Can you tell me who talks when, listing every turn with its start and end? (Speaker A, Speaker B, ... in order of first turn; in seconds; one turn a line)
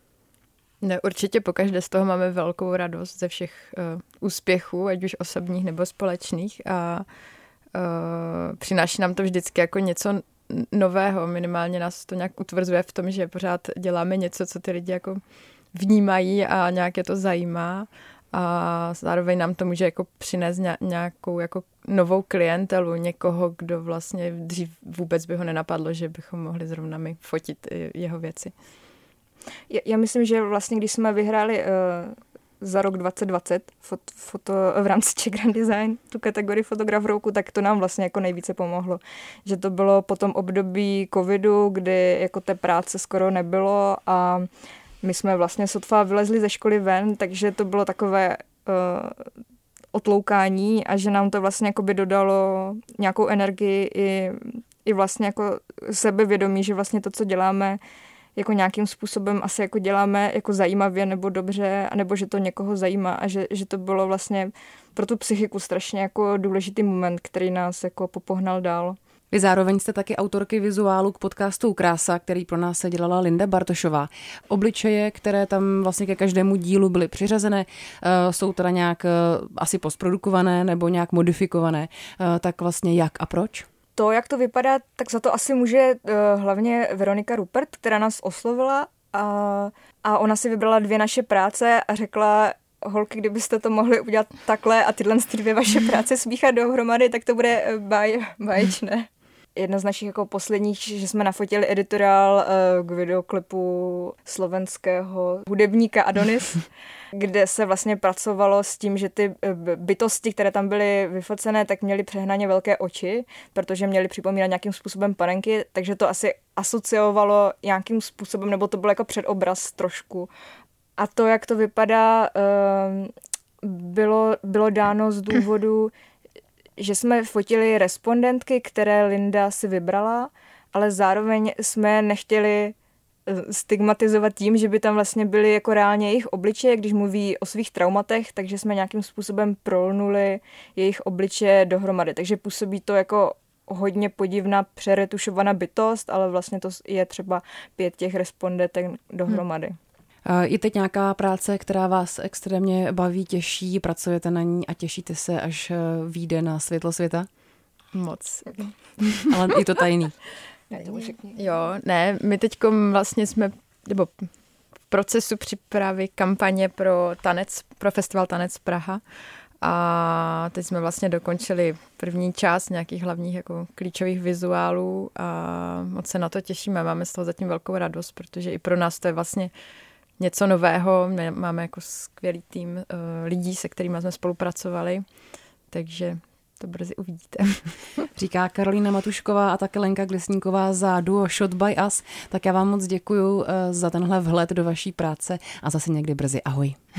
Speaker A: 0.8-7.1
Speaker A: 7.7-15.2
Speaker A: 15.7-28.5
Speaker B: 29.7-44.5
Speaker B: 45.0-49.3
Speaker B: 49.9-57.8
Speaker B: 58.4-69.0
Speaker C: 69.3-83.7
Speaker B: 84.0-120.3
Speaker B: 121.0-125.9
Speaker B: 126.8-132.8
Speaker B: 133.3-149.8
Speaker C: 150.3-157.3
Speaker A: 157.9-159.3
Speaker C: 159.3-160.1
Speaker B: 160.7-161.4
Speaker A: 161.3-164.3
Speaker A: 164.9-169.0
Speaker A: 169.6-179.5
Speaker A: 180.2-185.1
Speaker A: 185.7-187.8
Speaker C: 188.2-196.8